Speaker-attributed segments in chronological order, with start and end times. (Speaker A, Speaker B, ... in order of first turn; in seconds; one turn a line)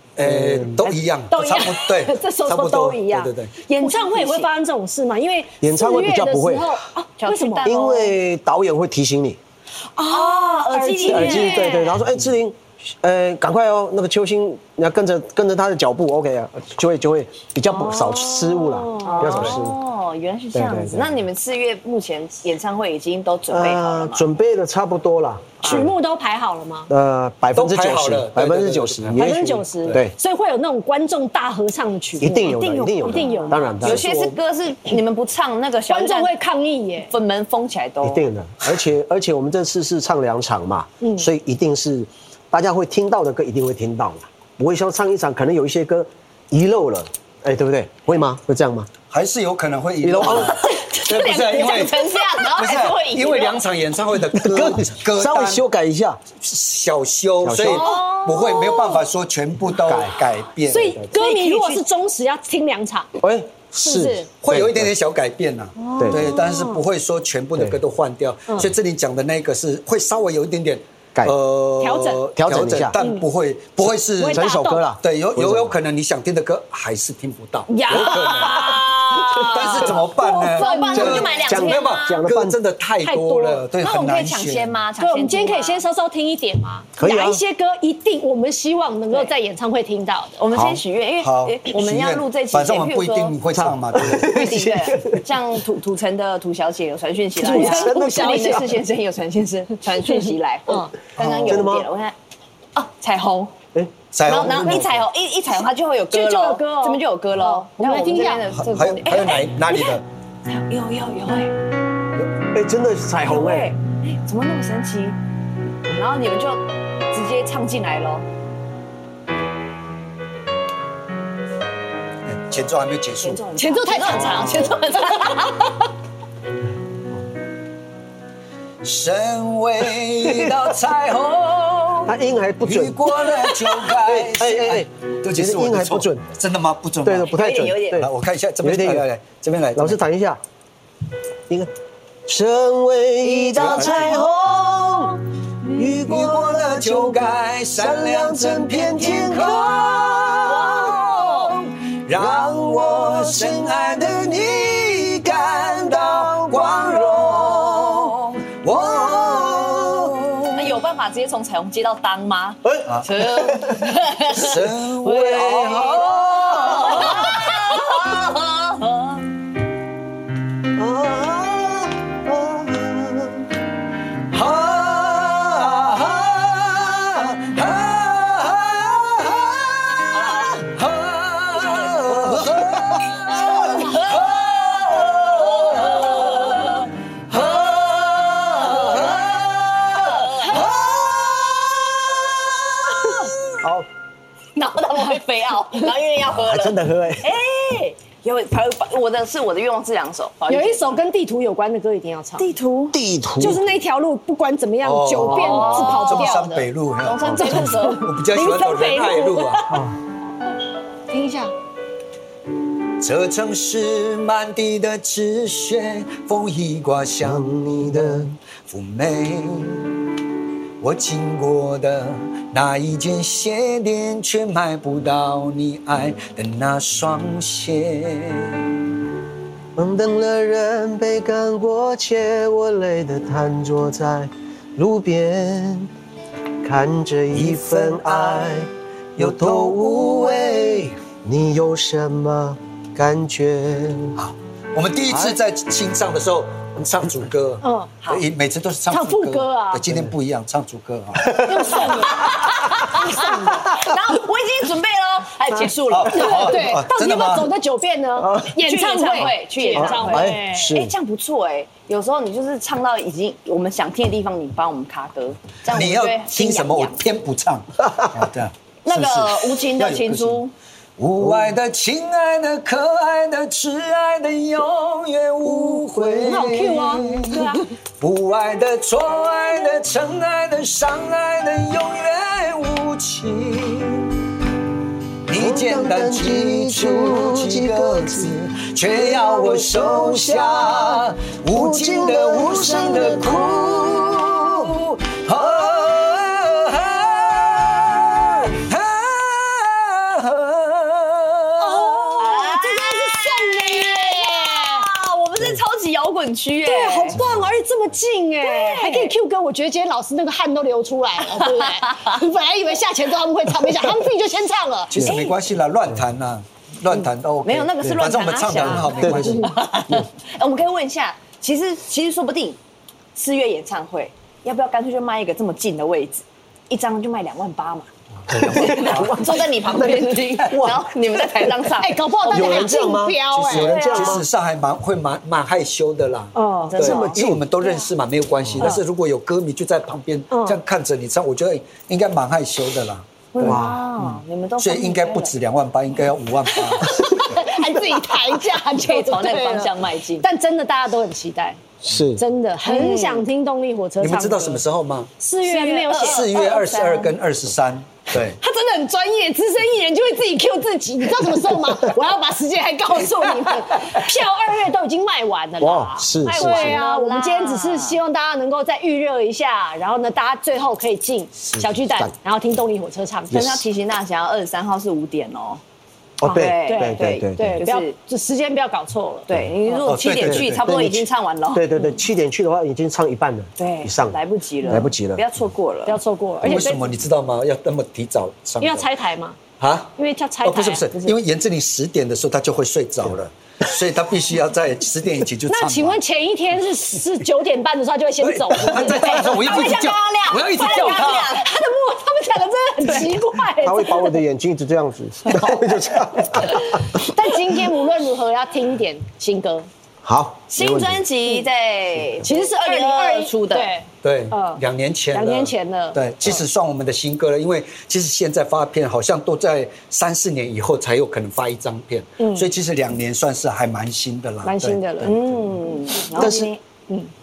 Speaker A: 0.2-3.5
Speaker B: 0.2-0.9
Speaker C: 1.3-7.8
Speaker D: 3.7-4.5
Speaker B: 5.6-6.8
Speaker D: 7.2-8.1
Speaker B: 7.6-9.4
Speaker C: 10.0-11.9
Speaker D: 10.1-11.9
Speaker B: 11.0-19.8
Speaker C: 17.7-19.6
Speaker D: 19.0-24.3
Speaker B: 20.5-21.2
Speaker B: 23.5-25.9
Speaker C: 25.6-26.9
Speaker B: 26.9-30.1
Speaker A: 27.5-30.0
Speaker C: 29.2-33.8
Speaker B: 32.2-34.1
Speaker D: 32.4-36.3
Speaker A: 33.8-34.3
Speaker C: 35.9-37.1
Speaker D: 37.1-38.3
Speaker B: 38.0-48.9
Speaker C: 41.0-41.3
Speaker A: 49.1-55.6
Speaker B: 50.0-50.6
Speaker D: 50.2-53.6
Speaker B: 54.3-56.2
Speaker A: 56.4-61.0
Speaker B: 57.4-58.0
Speaker D: 57.6-59.0
Speaker C: 57.9-58.9
Speaker B: 59.8-60.2
Speaker C: 60.7-63.1
Speaker D: 61.1-61.8
Speaker B: 63.2-64.9
Speaker C: 63.8-64.3
Speaker A: 64.4-84.8
Speaker C: 65.9-66.8
Speaker B: 66.0-66.3
Speaker C: 71.8-72.2
Speaker B: 72.3-73.0
Speaker C: 73.0-73.2
Speaker C: 74.2-74.8
Speaker B: 74.2-75.8
Speaker D: 77.7-82.2
Speaker B: 78.0-79.9
Speaker C: 80.2-81.7
Speaker B: 80.9-82.6
Speaker C: 83.0-83.7
Speaker D: 83.8-85.8
Speaker C: 85.0-90.4
Speaker B: 87.0-87.4
Speaker D: 90.4-93.4
Speaker B: 90.5-90.8
Speaker A: 91.2-94.5
Speaker B: 93.5-95.2
Speaker D: 94.1-102.2
Speaker C: 97.4-98.8
Speaker B: 97.4-98.7
Speaker B: 101.2-101.9
Speaker D: 102.8-103.6
Speaker B: 103.7-104.9
Speaker A: 104.1-105.0
Speaker D: 104.2-111.6
Speaker C: 106.1-108.5
Speaker A: 108.5-110.0
Speaker B: 112.4-113.8
Speaker D: 113.2-115.2
Speaker D: 115.9-118.2
Speaker A: 122.2-123.4
Speaker D: 123.2-125.7
Speaker C: 123.6-125.7
Speaker A: 128.8-137.3
Speaker B: 130.3-130.6
Speaker B: 132.1-133.0
Speaker D: 133.3-133.7
Speaker B: 134.1-136.3
Speaker B: 137.0-138.1
Speaker D: 137.3-138.0
Speaker A: 137.9-140.0
Speaker B: 138.6-139.1
Speaker B: 139.8-140.4
Speaker B: 142.3-151.0
Speaker D: 143.4-144.6
Speaker A: 143.5-144.3
Speaker A: 145.8-160.6
Speaker D: 150.4-151.3
Speaker B: 152.1-154.3
Speaker B: 155.7-158.2
Speaker B: 158.7-160.2
Speaker D: 160.5-169.2
Speaker B: 162.7-163.9
Speaker A: 164.3-167.4
Speaker B: 165.1-167.4
Speaker B: 170.7-173.5
Speaker A: 174.3-191.5
Speaker B: 182.1-183.5
Speaker D: 183.6-184.1
Speaker D: 185.0-186.9
Speaker D: 188.4-189.4
Speaker D: 189.9-190.7
Speaker B: 193.6-193.9
Speaker D: 194.6-201.0
Speaker B: 196.2-197.4
Speaker C: 200.5-202.5
Speaker D: 202.4-203.0
Speaker B: 202.9-203.6
Speaker C: 203.4-206.7
Speaker A: 204.8-209.7
Speaker B: 205.2-205.7
Speaker D: 205.3-206.4
Speaker D: 207.0-208.1
Speaker B: 207.3-207.6
Speaker C: 207.4-209.8
Speaker B: 209.7-210.0
Speaker C: 211.1-211.5
Speaker A: 213.0-219.9
Speaker B: 217.2-218.3
Speaker A: 220.8-228.7
Speaker B: 229.8-235.9
Speaker B: 236.6-244.2
Speaker A: 237.3-238.5
Speaker A: 239.2-240.8
Speaker A: 244.2-251.7
Speaker B: 245.1-245.4
Speaker C: 247.6-247.9
Speaker C: 248.9-249.8
Speaker B: 251.2-251.8
Speaker C: 251.4-253.6
Speaker D: 252.0-256.6
Speaker A: 255.9-257.5
Speaker C: 256.1-260.7
Speaker B: 258.2-258.6
Speaker D: 258.6-267.0
Speaker B: 259.7-260.9
Speaker A: 265.7-270.4
Speaker D: 268.9-270.5
Speaker A: 271.0-284.1
Speaker B: 271.2-271.5
Speaker B: 275.5-275.8
Speaker C: 276.0-277.7
Speaker A: 285.2-302.1
Speaker B: 285.3-288.4
Speaker B: 288.9-294.7
Speaker C: 301.6-304.9
Speaker D: 302.2-307.2
Speaker C: 306.6-315.0
Speaker D: 308.4-309.1
Speaker D: 311.4-312.0
Speaker A: 314.9-319.6
Speaker D: 315.0-315.4
Speaker D: 317.4-322.6
Speaker B: 318.9-319.4
Speaker D: 323.1-327.9
Speaker A: 328.3-329.2
Speaker B: 328.3-331.5
Speaker D: 328.5-332.7
Speaker C: 331.8-333.8
Speaker B: 332.3-334.2
Speaker A: 333.3-343.6
Speaker D: 333.6-334.2
Speaker C: 336.4-336.8
Speaker D: 336.7-337.9
Speaker B: 336.8-337.5
Speaker C: 340.3-340.6
Speaker D: 343.3-345.3
Speaker B: 343.4-343.9
Speaker A: 344.6-347.1
Speaker C: 346.7-351.6
Speaker D: 348.5-350.2
Speaker B: 351.8-352.2
Speaker C: 352.2-354.6
Speaker D: 352.6-353.3
Speaker A: 354.0-355.1
Speaker C: 355.2-356.3
Speaker D: 355.4-357.2
Speaker A: 355.9-358.4
Speaker C: 358.4-373.5
Speaker B: 365.6-366.8
Speaker D: 366.2-368.0
Speaker B: 371.6-372.1
Speaker D: 373.3-375.6
Speaker B: 373.3-373.6
Speaker B: 376.2-377.6
Speaker C: 376.2-379.9
Speaker D: 376.3-377.9
Speaker D: 379.3-382.0
Speaker A: 379.9-380.6
Speaker B: 380.2-385.3
Speaker D: 383.6-386.0
Speaker C: 385.9-387.0
Speaker A: 386.4-388.9
Speaker C: 388.6-389.4
Speaker A: 389.6-389.9
Speaker C: 390.0-390.9
Speaker A: 390.4-396.0
Speaker C: 395.5-404.2
Speaker A: 398.2-401.3
Speaker D: 398.9-401.5
Speaker B: 403.6-407.0
Speaker C: 406.4-409.7
Speaker B: 410.0-410.8
Speaker D: 410.5-413.7
Speaker C: 412.2-414.6
Speaker A: 414.0-425.4
Speaker C: 415.1-416.4
Speaker C: 422.2-422.5
Speaker C: 424.4-425.2
Speaker D: 425.0-426.6
Speaker B: 426.2-426.5
Speaker C: 426.2-427.1